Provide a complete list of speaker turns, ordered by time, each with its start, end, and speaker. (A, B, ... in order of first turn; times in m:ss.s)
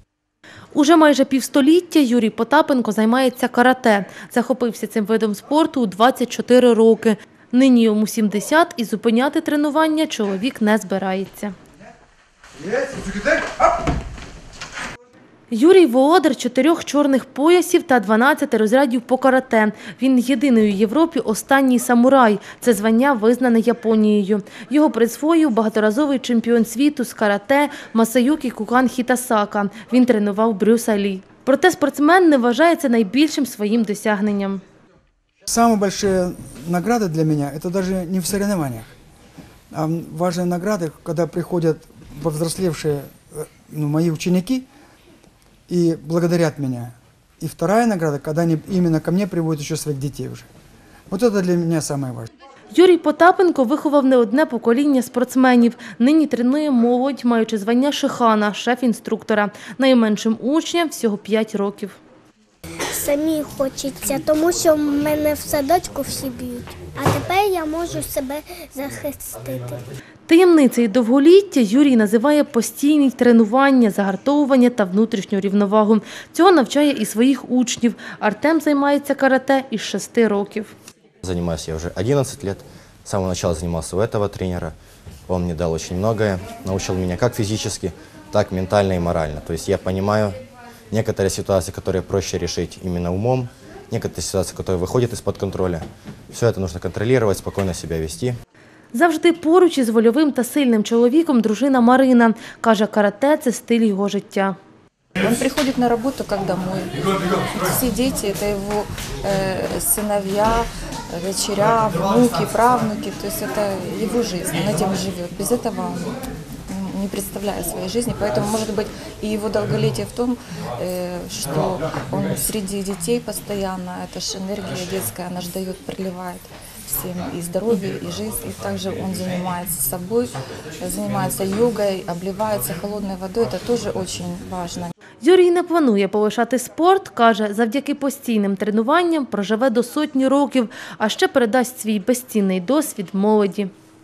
0:00.7-0:11.6 A
0:12.6-0:13.5 B
0:15.5-0:34.6 A
0:35.5-0:38.9 B
0:39.7-0:44.7 B
0:45.7-0:50.5 B
0:51.1-0:52.3 B
0:52.7-1:02.0 A
1:02.9-1:09.8 C
1:10.3-1:20.7 A
1:21.2-1:24.8 D
1:25.3-1:30.4 D
1:30.9-1:38.4 D
1:38.9-1:44.6 A
1:45.2-1:47.0 E
1:47.6-1:56.1 E
1:56.7-2:14.9 E
2:15.2-2:23.7 A